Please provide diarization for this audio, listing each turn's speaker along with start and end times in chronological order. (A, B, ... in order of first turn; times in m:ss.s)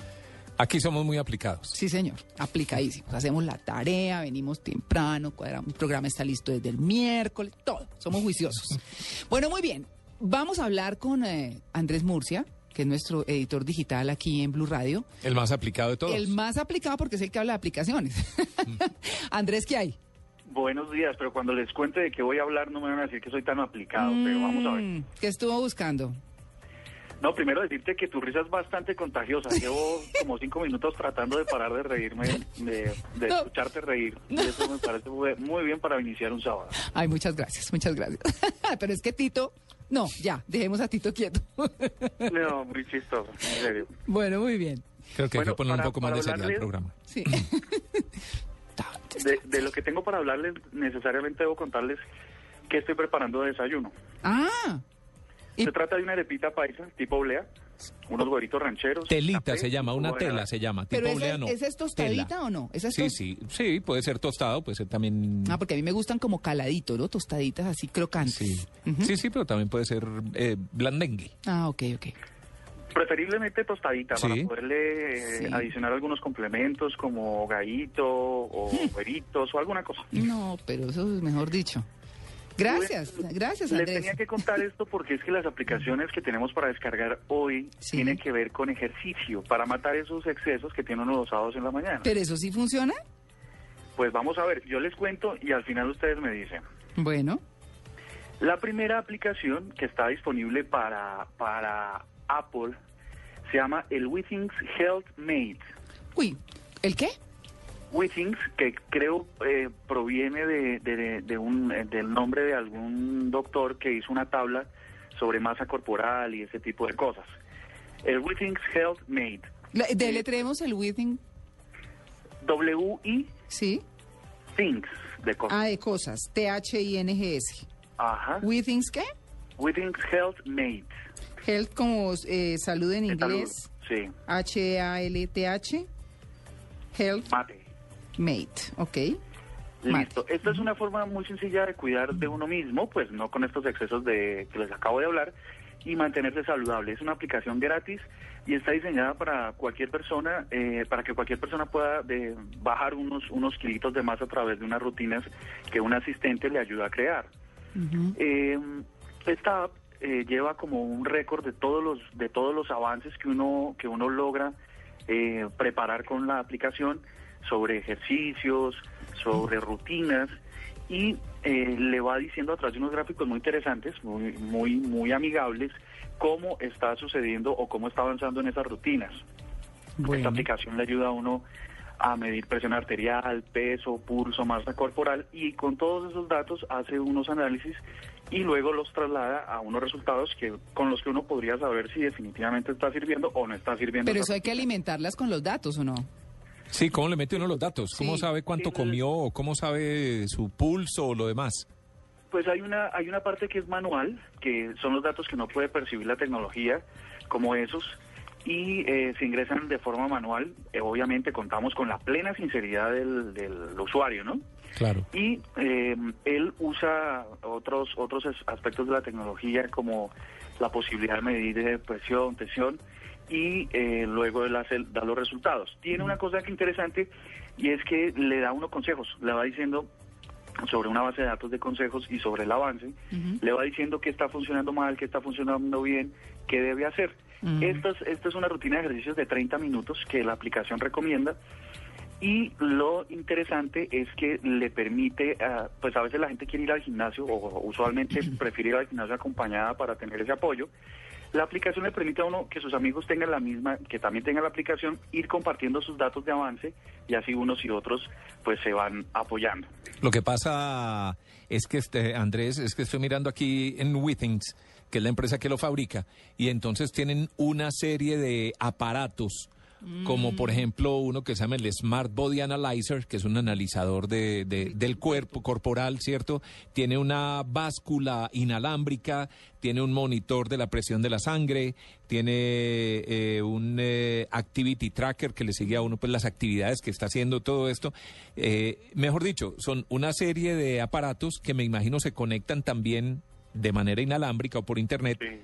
0:00.6-0:01.8 A
0:01.7-0:15.1 B
0:15.2-0:16.3 A
0:16.0-0:20.0 B
0:20.5-0:24.9 C
0:24.0-0:26.2 B
0:27.2-0:36.8 C
0:36.8-0:42.1 B
0:42.2-0:43.9 C
0:43.9-0:44.8 B
0:45.1-0:47.4 A
0:45.3-0:46.7 C
0:47.1-0:48.0 B
0:49.1-0:52.0 C
0:52.7-0:53.9 C
0:54.2-0:54.8 B
0:55.6-0:57.5 C
0:58.1-1:00.5 C
0:59.1-1:02.3 A
1:00.9-1:03.2 B
1:02.9-1:05.6 A
1:05.4-1:09.1 B
1:08.2-1:11.3 A
1:11.4-1:12.1 B
1:12.9-1:20.1 C
1:14.2-1:14.5 A
1:15.3-1:15.7 B
1:20.1-1:21.8 B
1:22.6-1:24.2 B
1:22.6-1:32.1 C
1:27.8-1:28.2 B
1:32.0-1:33.0 B
1:34.0-1:36.6 C
1:37.0-1:37.4 B
1:38.4-1:42.8 C
1:43.5-1:45.7 C
1:46.1-1:47.1 B
1:47.9-1:57.3 C
1:58.0-2:00.3 C
1:59.7-2:01.2 B
2:02.4-2:03.3 C
2:03.5-2:03.8 B
2:04.6-2:05.6 C
2:05.5-2:07.6 B
2:08.0-2:08.4 C
2:08.4-2:09.1 B
2:09.6-2:10.9 C
2:11.4-2:13.6 B
2:13.1-2:14.1 C
2:14.3-2:15.9 B
2:16.9-2:17.3 B
2:17.2-2:17.6 C
2:18.2-2:19.2 B
2:19.8-2:37.3 C
2:19.9-2:20.2 B
2:37.8-2:38.1 B
2:38.2-2:44.5 C
2:45.1-2:50.3 C
2:50.9-2:59.2 C
3:00.0-3:00.5 B
3:00.0-3:01.4 C
3:02.0-3:14.6 C
3:14.0-3:16.1 B
3:16.7-3:21.6 A
3:17.9-3:18.3 B
3:22.3-3:34.4 C
3:34.8-3:35.0 A
3:35.1-3:49.9 C
3:50.6-4:01.4 C
3:57.4-3:57.8 B
4:02.2-4:10.7 C
4:11.3-4:19.7 C
4:20.0-4:29.5 A
4:29.8-4:30.6 B
4:30.0-4:55.3 A